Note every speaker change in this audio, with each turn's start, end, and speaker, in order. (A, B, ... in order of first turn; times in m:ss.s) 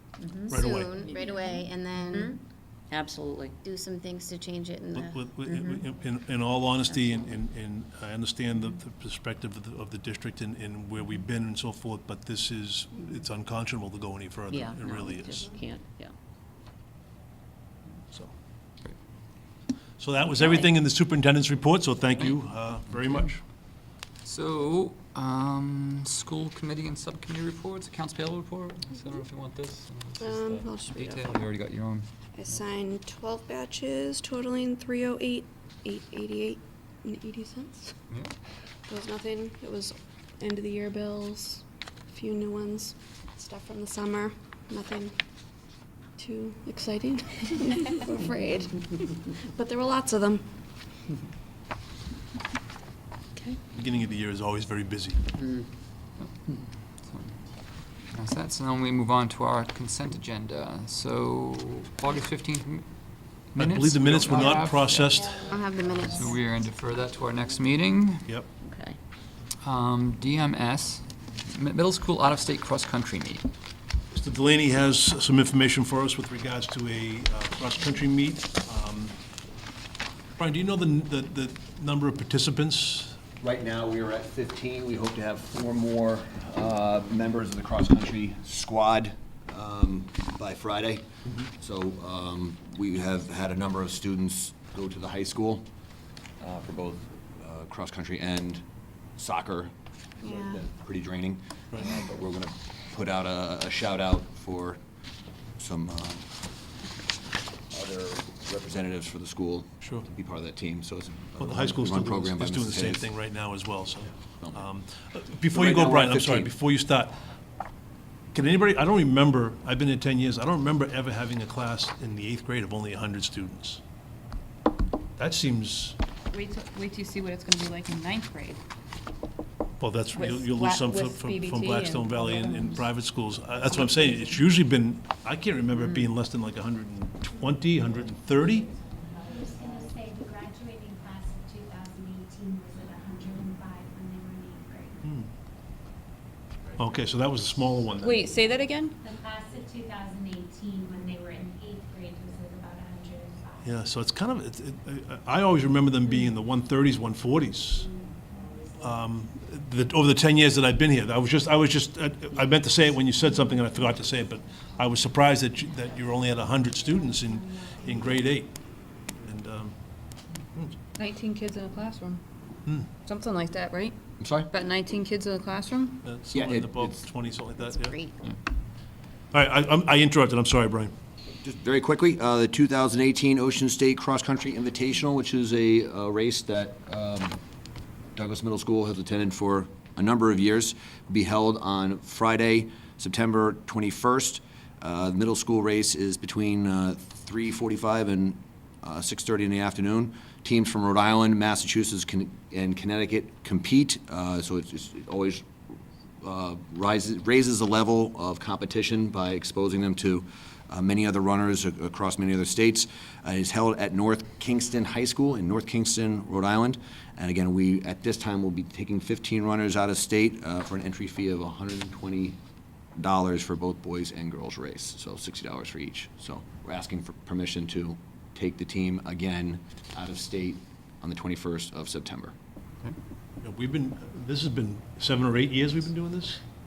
0:00.2-0:01.2 A
0:00.4-0:02.4 B
0:00.5-0:01.0 C
0:02.1-0:02.4 A
0:02.9-0:03.6 A
0:03.6-0:05.5 B
0:05.0-0:15.5 C
0:05.4-0:05.8 A
0:06.9-0:07.3 A
0:14.5-0:16.1 A
0:20.0-0:23.4 C
0:20.3-0:20.7 A
0:24.2-0:32.1 D
0:30.2-0:31.3 E
0:32.4-0:37.9 E
0:38.9-0:45.1 E
0:46.2-0:50.4 E
0:53.7-0:55.2 C
0:55.4-0:55.7 A
0:56.2-0:57.3 D
0:58.1-1:02.9 D
1:03.6-1:05.5 C
1:03.6-1:05.2 D
1:05.4-1:06.3 B
1:06.0-1:08.3 D
1:08.6-1:09.0 A
1:09.6-1:13.5 D
1:14.1-1:19.1 C
1:20.4-1:23.2 C
1:23.4-1:31.1 F
1:31.6-1:35.7 F
1:36.4-1:38.6 F
1:39.2-1:44.8 F
1:40.2-1:40.6 B
1:45.6-1:46.3 F
1:47.7-1:53.1 F
1:51.4-1:57.2 C
1:55.5-1:56.5 F
1:58.3-2:03.8 C
2:05.2-2:06.0 C
2:06.3-2:08.6 G
2:09.8-2:18.7 C
2:10.1-2:12.9 G
2:13.8-2:14.4 G
2:15.7-2:16.1 A
2:19.2-2:25.0 H
2:25.0-2:25.3 C
2:26.8-2:28.2 C
2:28.0-2:29.0 G
2:29.0-2:33.9 H
2:33.6-2:37.9 C
2:38.8-2:48.6 C
2:43.2-2:43.8 H
2:45.7-2:48.3 H
2:49.2-2:49.8 C
2:51.0-2:52.2 G
2:53.0-2:54.0 G
2:54.2-2:54.5 F
2:54.5-2:56.0 G
2:56.0-2:58.0 C
2:56.3-2:57.1 F
2:57.6-2:58.2 B
2:59.3-3:00.9 C
3:01.4-3:07.4 F
3:08.2-3:25.5 F
3:26.2-3:42.4 F
3:43.0-3:52.3 F
3:53.4-3:56.4 C